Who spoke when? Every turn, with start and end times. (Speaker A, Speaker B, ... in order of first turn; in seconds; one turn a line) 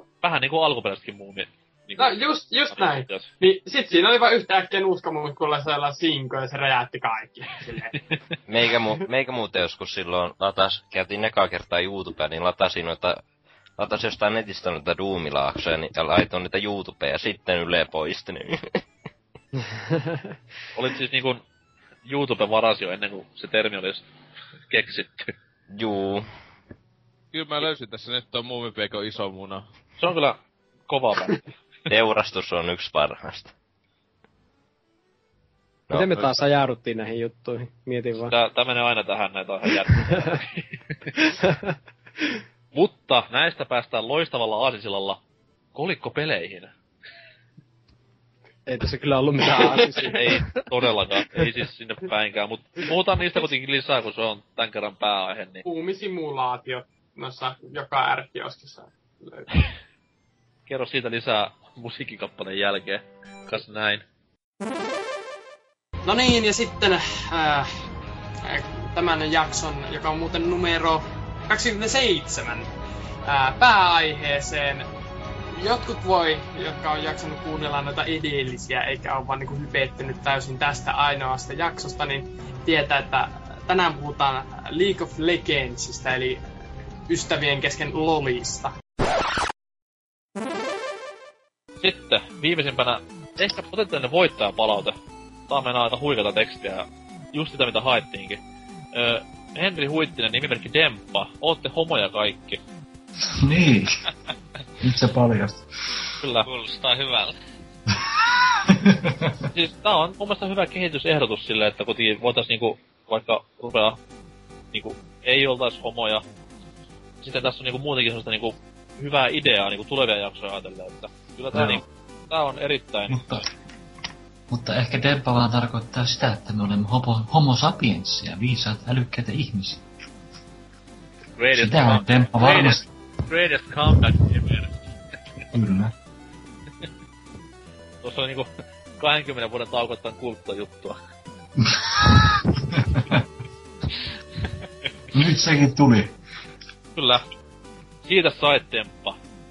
Speaker A: 0.2-3.2
Speaker B: 2.0-7.9
Speaker C: 8.5-13.2
Speaker C: 13.8-18.8
Speaker A: 20.7-21.4
Speaker A: 22.0-24.0
Speaker A: 24.7-25.3
Speaker C: 25.7-26.3
Speaker D: 27.3-29.6
Speaker A: 30.0-31.5
Speaker C: 31.9-33.5
Speaker C: 35.9-36.3
Speaker E: 35.9-38.3
Speaker A: 38.2-40.4
Speaker E: 40.0-40.4
Speaker A: 42.7-45.2
Speaker A: 45.7-46.7
Speaker E: 48.7-50.4
Speaker A: 50.0-55.6
Speaker B: 55.6-59.5
Speaker A: 60.7-64.0
Speaker B: 66.0-67.7
Speaker B: 68.5-72.7
Speaker B: 73.2-74.8
Speaker B: 75.5-86.4
Speaker B: 87.1-88.7
Speaker A: 91.8-94.9
Speaker A: 95.5-98.4
Speaker A: 98.9-102.6
Speaker F: 103.4-103.9
Speaker F: 104.8-105.6
Speaker A: 106.2-107.2
Speaker F: 108.7-109.3
Speaker A: 109.5-114.0
Speaker A: 114.7-116.2
Speaker A: 117.2-123.4
Speaker F: 121.5-121.8
Speaker F: 123.1-123.4
Speaker F: 124.5-129.8
Speaker A: 131.4-134.7
Speaker F: 131.5-132.8
Speaker F: 135.5-135.9
Speaker A: 138.0-141.0
Speaker F: 141.7-143.2
Speaker F: 145.1-146.1
Speaker A: 146.9-147.3
Speaker A: 148.0-149.2